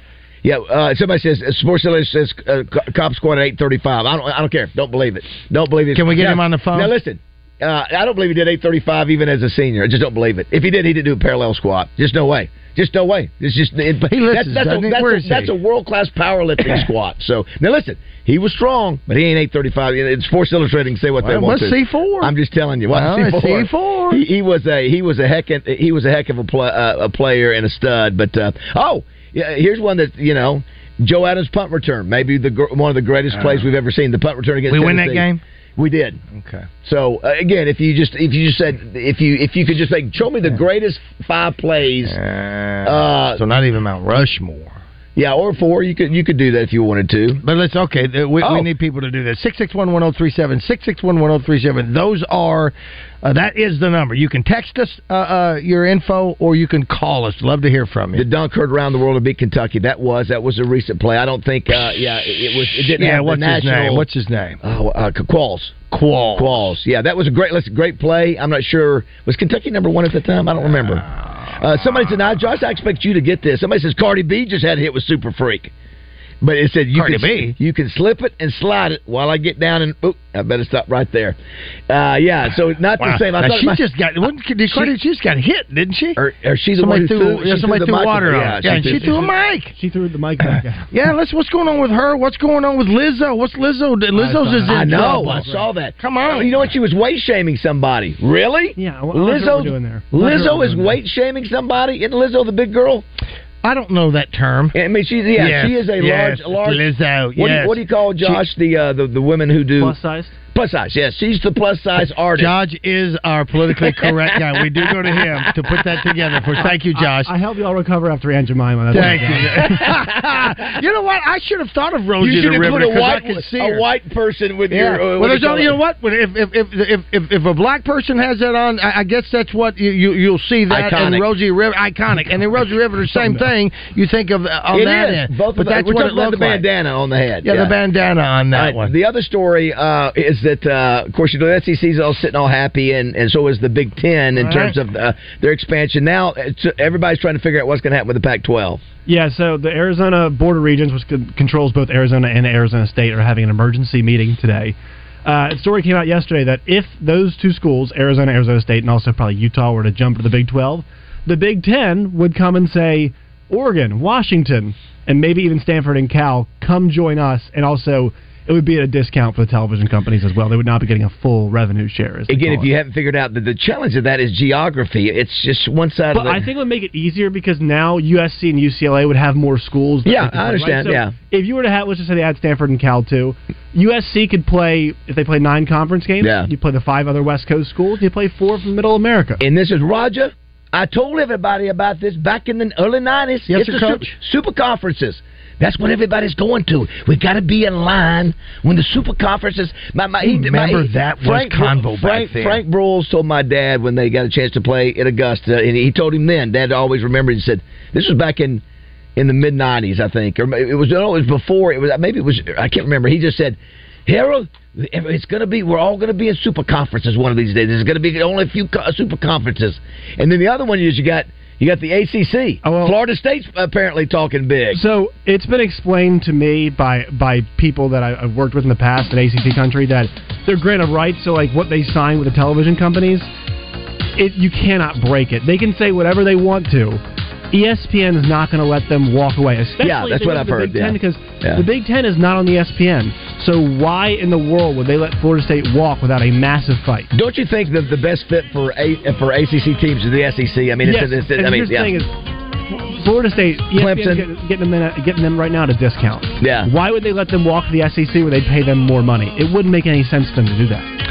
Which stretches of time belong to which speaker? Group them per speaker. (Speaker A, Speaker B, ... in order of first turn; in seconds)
Speaker A: 0.4-36.2, 36.8-42.2, 42.8-43.4, 45.2-47.4, 48.4-48.7, 58.1-64.1, 64.6-65.8, 66.4-71.0, 71.6-75.7, 76.4-81.4, 81.9-83.8, 84.7-85.0, 86.2-89.2, 94.7-103.1, 104.7-110.0, 110.5-112.6, 113.8-115.5, 119.0-120.6, 122.2-125.8, 130.7-131.3, 134.7-137.8, 138.5-148.8, 172.3-176.4, 180.1-181.1, 186.2-186.5, 189.4-208.6, 209.2-224.8, 239.8-241.7, 247.1-251.9, 253.7-254.3, 256.4-256.7
Speaker B: 5.9-6.9, 14.1-15.5, 21.2-22.3, 22.9-24.2, 33.3-33.7, 34.7-35.4, 36.3-36.7, 42.1-44.8, 47.4-58.2, 62.9-64.6, 65.9-66.7, 77.0-77.5, 83.0-86.2, 86.8-89.7, 90.9-96.7, 100.2-100.5, 103.6-104.7, 105.4-108.4, 112.4-117.3, 118.9-123.8, 124.7-136.6, 137.4-138.9, 144.4-144.8, 193.5-194.1, 200.2-202.6
Speaker C: 88.6-90.9, 94.1-95.7, 98.8-100.9, 109.8-110.3, 116.6-119.8, 149.1-172.7, 176.1-189.4, 222.6-223.0, 224.7-233.3, 234.2-237.0, 237.5-247.1, 250.8-252.1, 252.7-260.9